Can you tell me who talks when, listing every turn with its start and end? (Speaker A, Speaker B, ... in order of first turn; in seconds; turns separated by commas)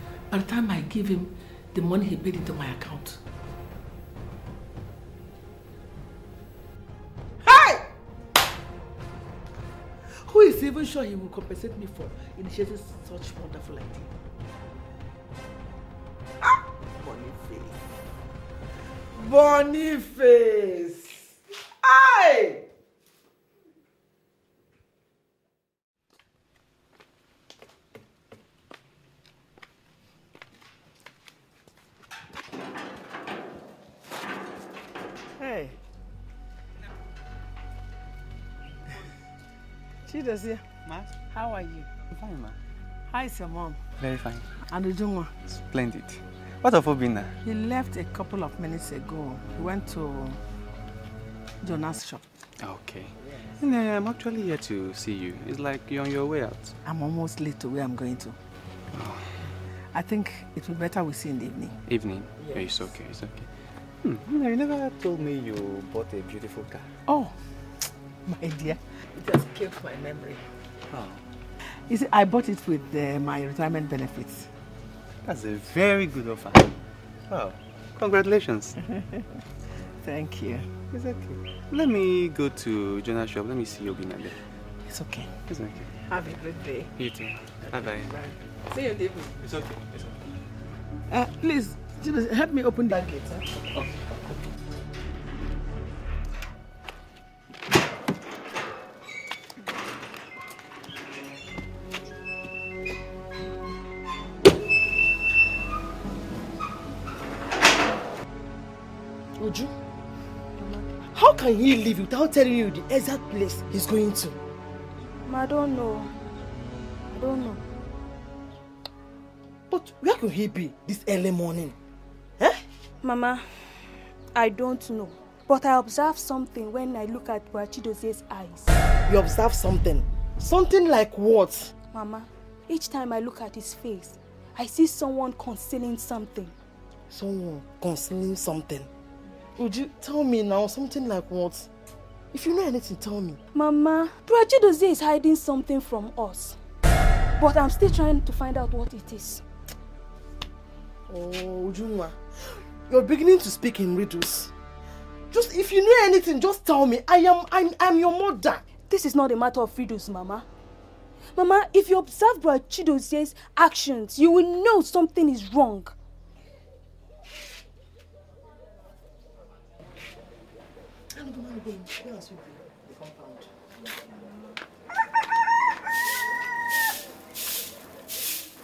Speaker A: 0.3-3.2, Speaker A: 7.5-7.8, Speaker A: 10.2-14.1, Speaker A: 35.4-35.8, Speaker A: 40.1-40.6, Speaker B: 40.9-41.1, Speaker A: 41.3-41.9, Speaker B: 42.1-42.6, Speaker A: 43.1-43.8, Speaker B: 44.0-44.5, Speaker A: 44.7-45.3, Speaker B: 45.5-47.4, Speaker A: 47.4-50.4, Speaker A: 51.6-52.2, Speaker B: 52.6-56.8, Speaker A: 56.9-58.4, Speaker B: 58.9-59.3, Speaker A: 59.9-61.8, Speaker B: 61.9-63.5, Speaker A: 62.4-62.9, Speaker B: 64.0-66.9, Speaker A: 67.1-67.4, Speaker A: 68.3-70.4, Speaker B: 70.9-71.2, Speaker A: 71.6-74.5, Speaker B: 75.2-78.8, Speaker A: 80.0-80.7, Speaker B: 80.9-84.4, Speaker A: 84.9-85.3, Speaker B: 85.5-85.9, Speaker A: 86.1-86.9, Speaker B: 87.0-88.1, Speaker A: 87.7-89.3, Speaker B: 89.4-90.2, Speaker A: 91.1-93.7, Speaker C: 109.4-109.7, Speaker C: 111.1-114.4, Speaker D: 115.2-116.1, Speaker D: 117.1-117.6, Speaker C: 119.7-121.8, Speaker D: 123.0-123.5, Speaker D: 124.3-128.7, Speaker C: 129.1-131.7, Speaker D: 131.9-136.5, Speaker C: 137.1-138.9, Speaker C: 139.6-141.7, Speaker C: 142.3-143.4, Speaker D: 143.5-146.6, Speaker D: 147.4-149.4, Speaker C: 151.1-152.2, Speaker C: 152.9-154.5, Speaker C: 155.3-158.6, Speaker D: 158.9-160.4, Speaker D: 161.3-165.9, Speaker C: 171.2-173.5